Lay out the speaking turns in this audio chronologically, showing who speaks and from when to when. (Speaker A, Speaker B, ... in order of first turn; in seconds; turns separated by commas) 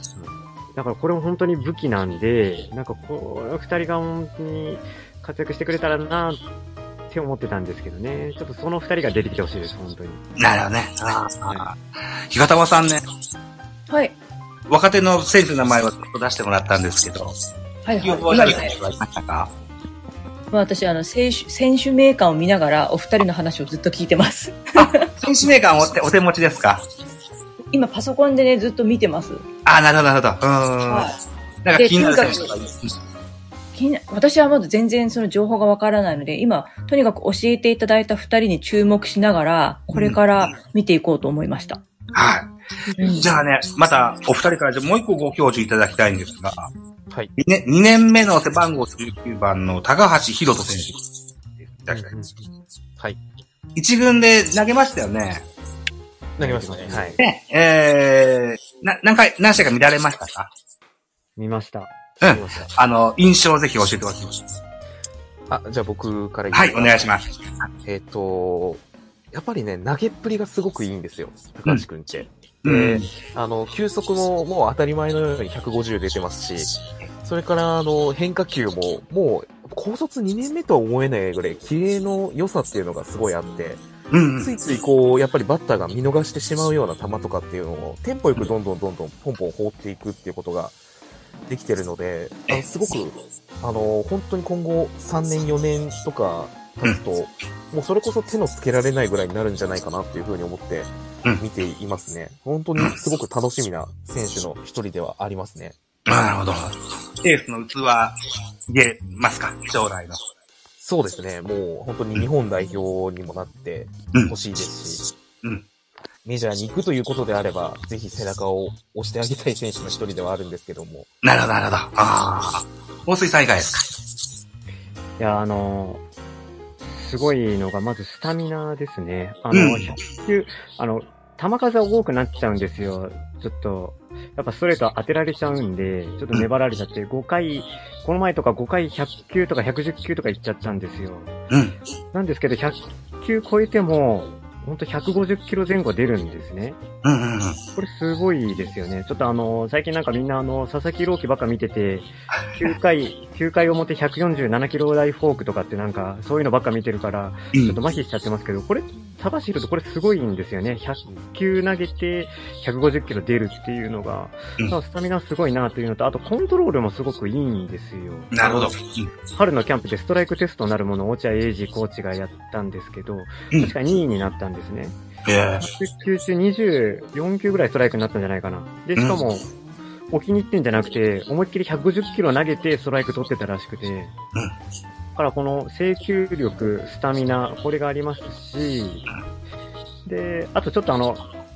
Speaker A: 0.2-6.4, Speaker A: 7.1-10.2, Speaker B: 10.4-11.8, Speaker B: 12.3-13.0, Speaker C: 13.9-14.2, Speaker B: 14.7-17.4, Speaker C: 17.9-18.7, Speaker B: 18.0-19.5, Speaker C: 20.5-25.1, Speaker B: 24.8-26.9, Speaker C: 27.7-29.5, Speaker B: 29.7-33.0, Speaker C: 30.9-31.2, Speaker C: 31.8-32.5, Speaker C: 33.8-41.8, Speaker B: 39.9-40.5, Speaker B: 42.1-42.5, Speaker C: 43.0-43.3, Speaker B: 43.1-46.7, Speaker B: 47.4-51.0, Speaker B: 51.6-52.1, Speaker A: 51.9-52.5, Speaker B: 53.8-55.5, Speaker D: 56.4-57.2, Speaker A: 56.4-57.2, Speaker B: 57.2-60.5, Speaker A: 61.4-61.9, Speaker B: 62.2-64.5, Speaker D: 62.2-62.7, Speaker D: 65.5-67.1, Speaker B: 66.5-67.3, Speaker D: 67.8-83.9, Speaker B: 72.6-73.1, Speaker B: 84.1-84.5, Speaker D: 84.4-90.8, Speaker D: 91.5-105.8, Speaker B: 106.1-108.2, Speaker B: 108.7-110.2, Speaker D: 110.8-115.0, Speaker D: 116.2-121.1, Speaker B: 121.2-123.9, Speaker A: 125.2-126.0, Speaker A: 126.8-141.3, Speaker B: 129.5-130.0, Speaker B: 141.5-141.8, Speaker A: 142.1-146.8, Speaker B: 147.0-147.6, Speaker A: 147.8-168.7, Speaker B: 168.3-169.1, Speaker A: 169.3-175.0, Speaker B: 175.3-175.7, Speaker A: 175.6-179.5, Speaker B: 179.0-179.2, Speaker A: 180.1-184.1, Speaker A: 185.2-189.1, Speaker A: 190.1-191.2